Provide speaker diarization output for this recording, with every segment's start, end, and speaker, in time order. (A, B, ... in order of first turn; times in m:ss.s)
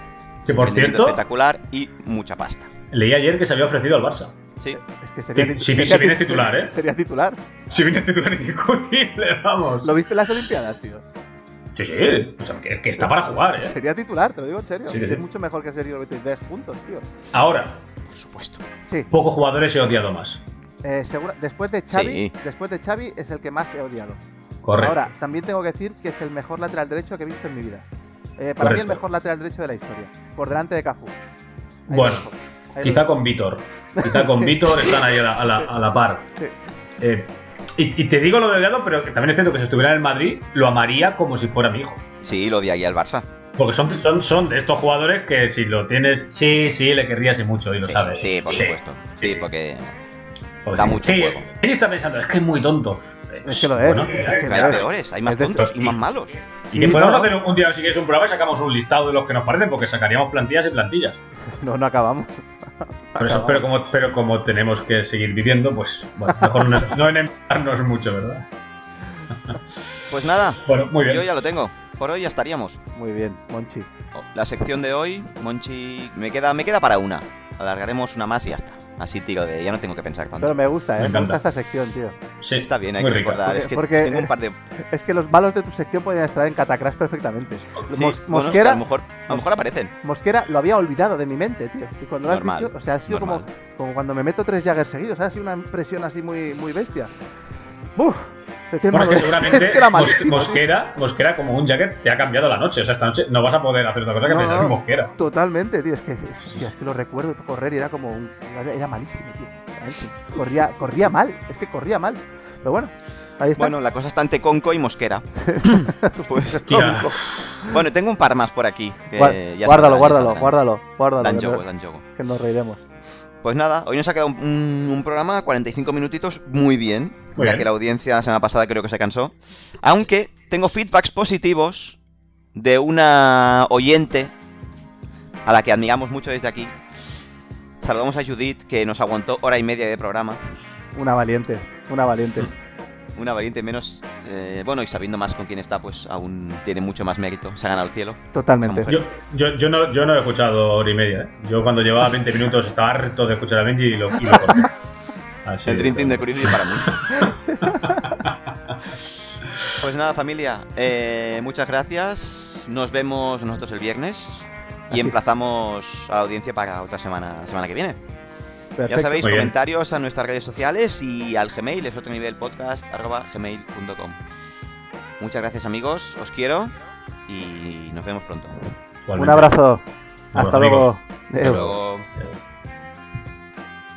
0:00.5-0:01.2 A
0:00.6-0:02.7 B
0:02.9-0:04.4 A
0:04.8-0:07.4 C
0:05.3-0:06.7 A
0:07.7-0:09.9 A
0:09.8-0:11.0 C
0:11.8-0:13.8 A
0:13.6-0:17.1 C
0:14.9-0:15.2 A
0:17.3-0:17.8 A
0:18.1-0:18.6 B
0:19.1-0:20.4 A
0:20.8-0:24.2 C
0:21.9-0:22.3 B
0:24.6-0:25.1 A
0:24.8-0:27.9 C
0:28.4-0:31.2 C
0:28.6-0:29.0 A
0:31.9-0:33.1 C
0:31.9-0:32.3 A
0:32.8-0:36.3 A
0:34.0-0:34.9 C
0:37.0-0:42.0 A
0:42.2-0:43.3 B
0:43.6-0:49.5 A
0:47.8-0:50.0 B
0:50.6-0:54.8 A
0:50.7-0:51.5 B
0:53.4-0:55.7 C
0:54.3-0:56.4 B
0:55.6-0:56.0 A
0:56.7-0:57.4 C
0:56.7-1:01.2 A
1:01.6-1:02.4 C
1:03.1-1:03.7 C
1:03.2-1:08.5 A
1:10.1-1:12.8 B
1:10.6-1:11.3 A
1:13.0-1:13.9 C
1:14.2-1:20.6 B
1:20.4-1:22.2 C
1:21.0-1:21.4 A
1:22.4-1:23.5 A
1:22.6-1:24.6 B
1:23.5-1:29.4 C
1:27.9-1:29.9 B
1:30.0-1:37.1 C
1:32.3-1:33.5 B
1:38.0-1:40.6 C
1:38.9-1:45.1 A
1:44.2-1:53.7 C
1:53.6-1:57.0 B
1:55.4-1:57.7 C
1:56.7-1:57.6 A
1:57.6-2:00.6 B
1:59.2-2:02.8 C
2:01.2-2:02.0 B
2:03.4-2:12.0 B
2:07.4-2:07.7 A
2:12.6-2:14.3 B
2:15.5-2:16.8 B
2:17.8-2:20.4 B
2:20.9-2:22.5 C
2:23.2-2:29.0 B
2:28.3-2:29.0 C
2:28.9-2:34.7 A
2:35.4-2:38.3 A
2:35.6-2:37.3 B
2:37.5-2:37.9 C
2:39.8-2:48.0 B
2:48.8-2:49.4 C
2:48.9-2:54.2 B
2:49.2-2:49.5 A
2:55.2-2:56.7 B
2:57.3-2:58.6 B
2:59.1-2:59.6 A
2:59.2-2:59.8 C
3:00.3-3:00.9 A
3:00.3-3:01.8 C
3:01.4-3:02.1 B